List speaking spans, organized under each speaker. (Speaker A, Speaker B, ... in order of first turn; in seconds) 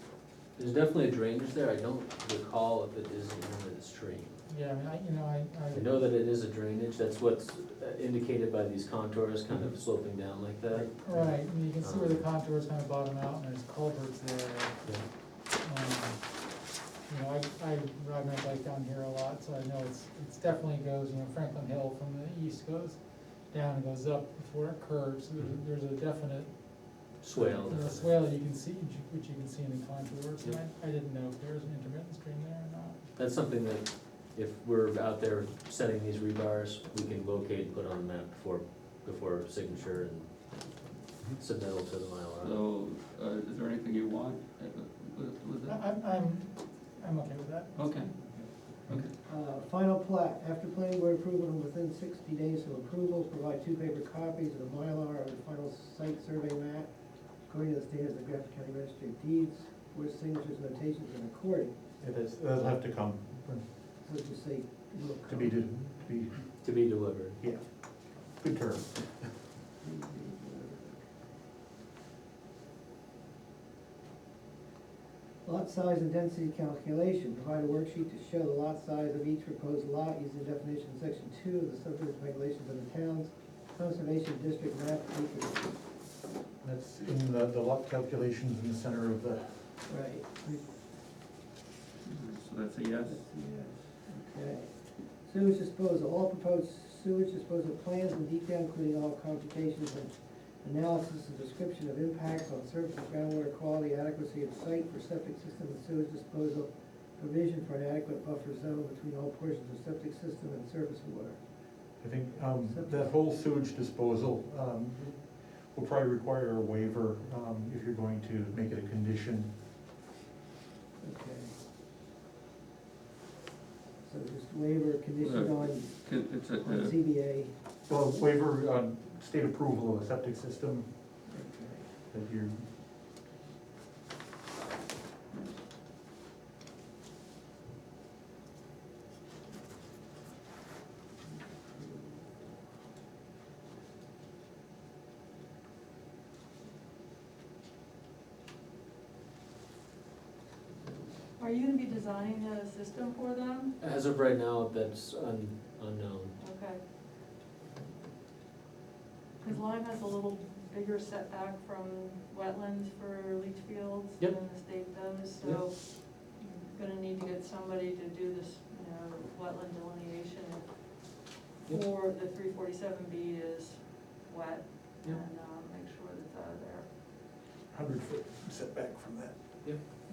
Speaker A: 0.6-4.4, 5.7-12.2, 27.2-28.1, 33.1-40.7, 41.4-42.6, 66.6-67.4, 153.8-156.3
Speaker B: 4.5-5.9, 10.9-33.0, 45.6-48.4
Speaker C: 42.4-45.8, 47.8-48.1, 48.7-49.1, 92.0-93.2, 125.2-127.0
Speaker D: 49.1-56.9, 57.5-61.8, 64.0-65.6, 69.8-71.0, 75.4-85.8, 89.9-90.7, 93.0-111.4, 112.7-113.1, 121.0-121.5, 124.0-126.0, 126.6-127.5, 131.3-131.8
Speaker E: 62.0-63.6, 65.3-66.5, 67.4-67.6, 68.4-69.3, 86.6-89.7, 112.0-119.5, 127.9-130.9, 132.1-132.6, 177.7-179.3
Speaker F: 151.4-153.7, 156.4-156.8, 159.4-176.9